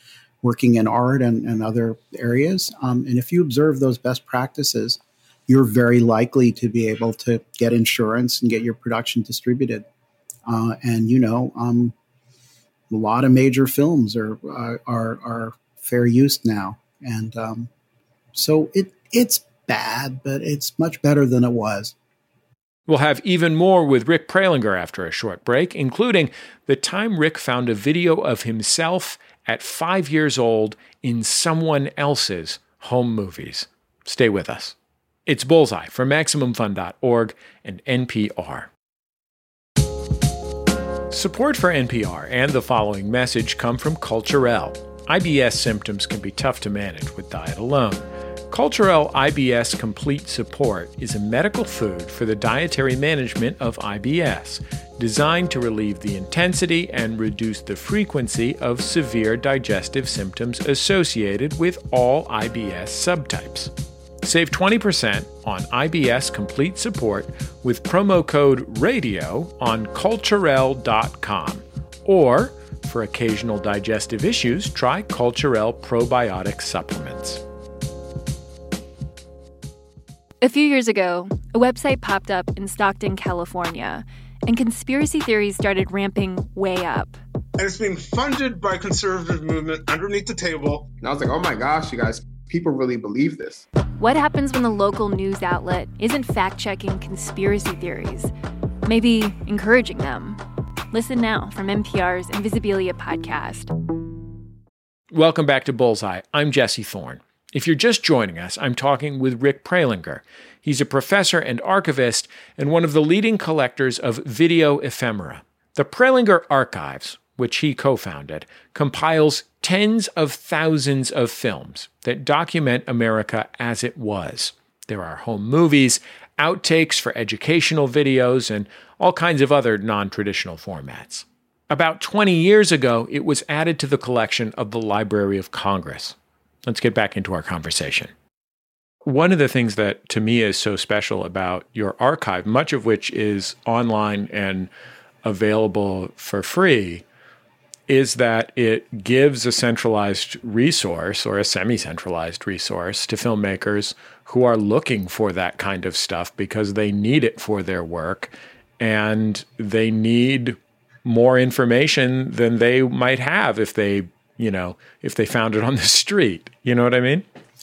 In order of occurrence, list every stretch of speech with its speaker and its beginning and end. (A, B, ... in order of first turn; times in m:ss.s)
0:00.4-0:09.8 A
0:10.4-0:11.9 A
0:12.9-0:17.7 A
0:18.3-0:21.9 A
0:22.9-0:34.8 B
0:35.3-0:38.7 B
0:41.1-1:03.7 B
1:04.2-1:17.4 B
1:20.4-1:27.2 C
1:27.6-1:30.9 D
1:31.0-1:33.6 E
1:34.0-1:38.3 C
1:38.8-1:40.4 C
1:40.9-1:43.7 C
1:45.1-2:18.1 B
2:19.0-2:24.7 B
2:25.2-2:27.0 B
2:27.9-2:47.2 B